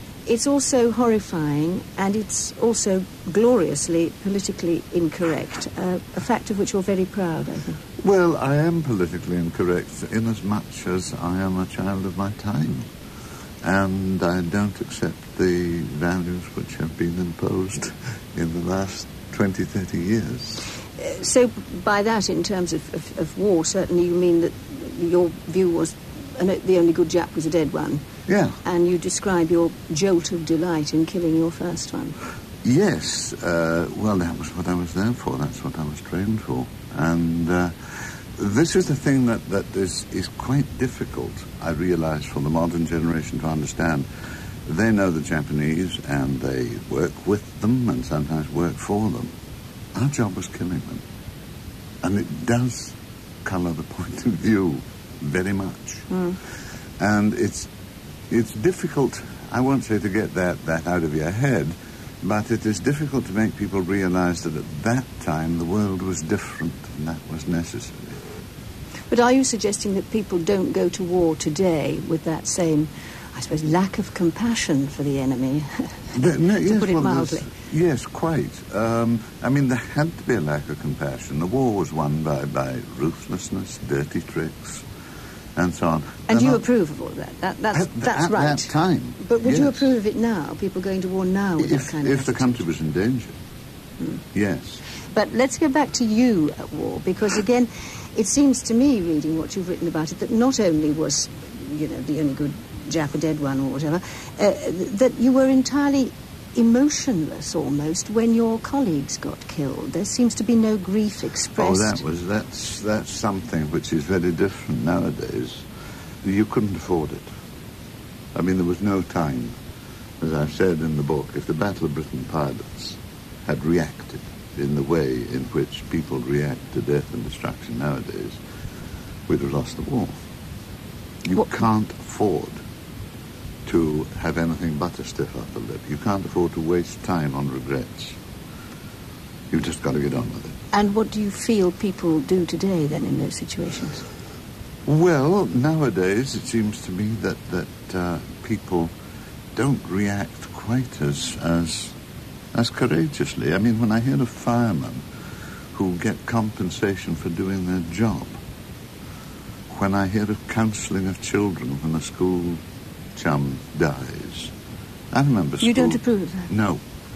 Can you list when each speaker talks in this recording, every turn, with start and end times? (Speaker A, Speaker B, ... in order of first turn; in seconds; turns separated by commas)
Speaker A: 0.3-7.8, Speaker B: 8.0-12.9, Speaker B: 13.6-20.6, Speaker A: 21.0-28.1, Speaker B: 28.3-28.6, Speaker A: 28.6-32.2, Speaker B: 32.6-44.1, Speaker B: 44.6-49.3, Speaker B: 50.0-51.0, Speaker B: 52.0-56.1, Speaker A: 56.1-56.4, Speaker B: 57.0-57.7, Speaker B: 58.3-68.1, Speaker A: 69.1-77.5, Speaker B: 76.1-84.8, Speaker B: 85.6-86.6, Speaker A: 86.3-92.6, Speaker B: 87.7-89.9, Speaker B: 91.6-93.4, Speaker B: 94.3-94.8, Speaker A: 95.1-112.0, Speaker B: 111.6-115.7, Speaker B: 116.2-117.3, Speaker B: 118.3-119.5, Speaker B: 120.2-128.4, Speaker B: 129.3-130.1, Speaker B: 131.2-132.6, Speaker B: 133.7-138.2, Speaker B: 139.5-140.5, Speaker A: 140.7-144.1, Speaker B: 144.9-148.9, Speaker B: 149.6-151.9, Speaker B: 152.5-155.1, Speaker B: 155.7-158.4, Speaker B: 159.7-162.6, Speaker B: 163.2-164.5, Speaker B: 165.1-166.8, Speaker A: 165.6-166.5